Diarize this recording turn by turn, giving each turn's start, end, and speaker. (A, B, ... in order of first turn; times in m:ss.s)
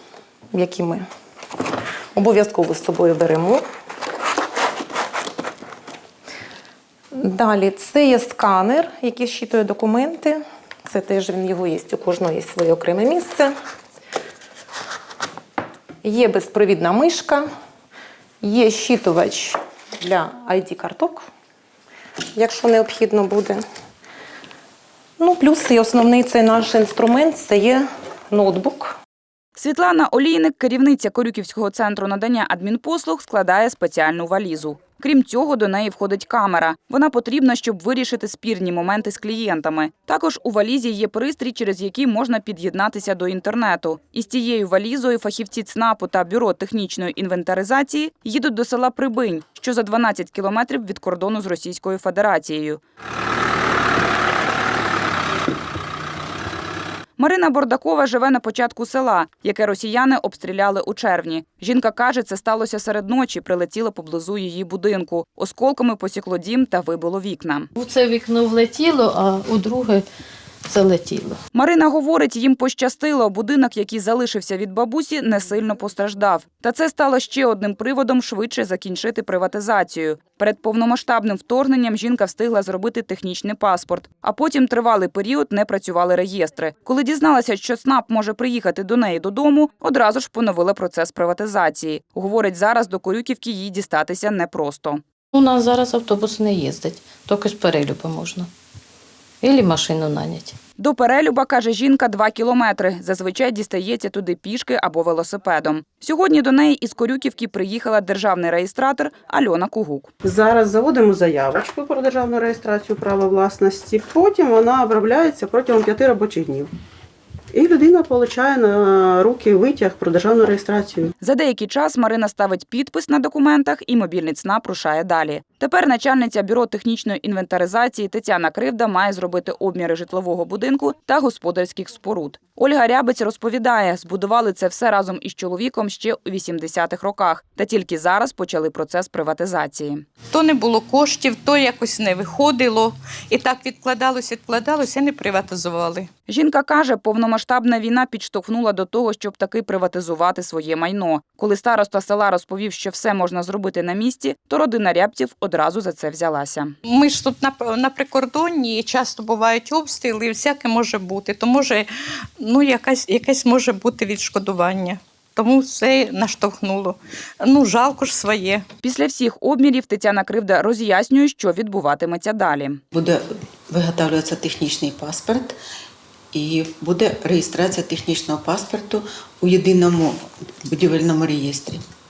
0:00.5-0:01.0 A
0:02.1-0:03.6 A
0:07.1-0:13.5 A
0:16.0-0:17.4 A
0:18.4-0:21.2 A
0:22.4-0:23.6 A
0:25.2-0:29.0 A
0:29.6-0:52.8 B
0:57.2-1:07.7 B
1:07.8-1:10.0 C
1:10.6-1:11.4 C
1:11.5-1:35.0 B
1:35.3-1:38.5 C
1:39.4-1:40.6 C
1:40.8-1:50.1 B
1:50.2-1:56.7 D
1:57.5-2:01.1 D
2:01.2-2:20.0 B
2:20.3-2:26.1 E
2:26.3-2:36.7 B
2:36.9-2:41.9 E
2:42.4-2:48.6 E
2:48.8-2:52.8 B
2:52.9-2:55.6 F
2:56.3-3:01.8 F